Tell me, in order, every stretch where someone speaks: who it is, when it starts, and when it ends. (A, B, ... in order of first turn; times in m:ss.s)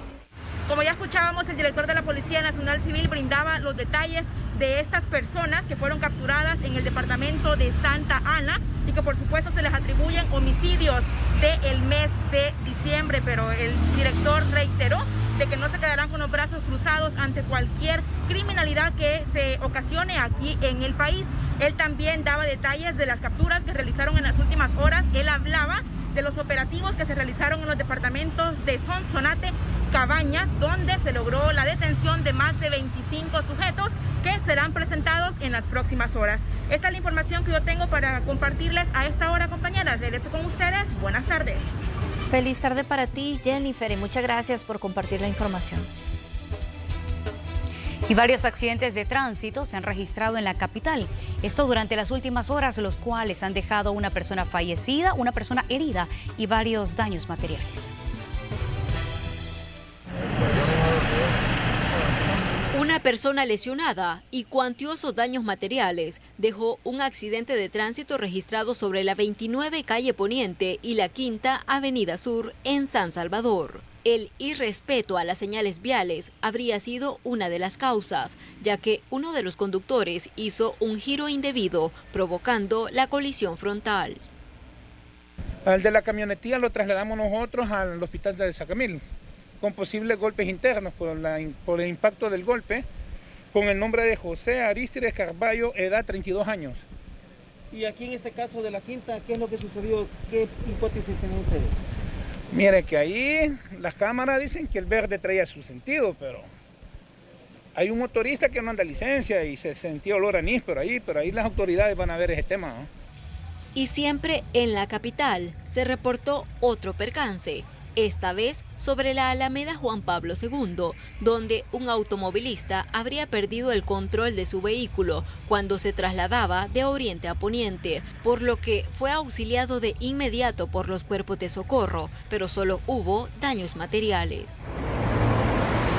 0:00.7-0:41.7 A
0:42.3-0:45.9 B
0:48.1-0:57.9 C
1:02.7-1:24.2 D
1:25.7-1:29.0 E
1:29.6-1:32.9 E
1:33.5-1:36.8 E
1:38.0-1:41.7 F
1:42.5-1:46.5 E
1:47.8-1:52.9 E
1:53.8-2:14.6 D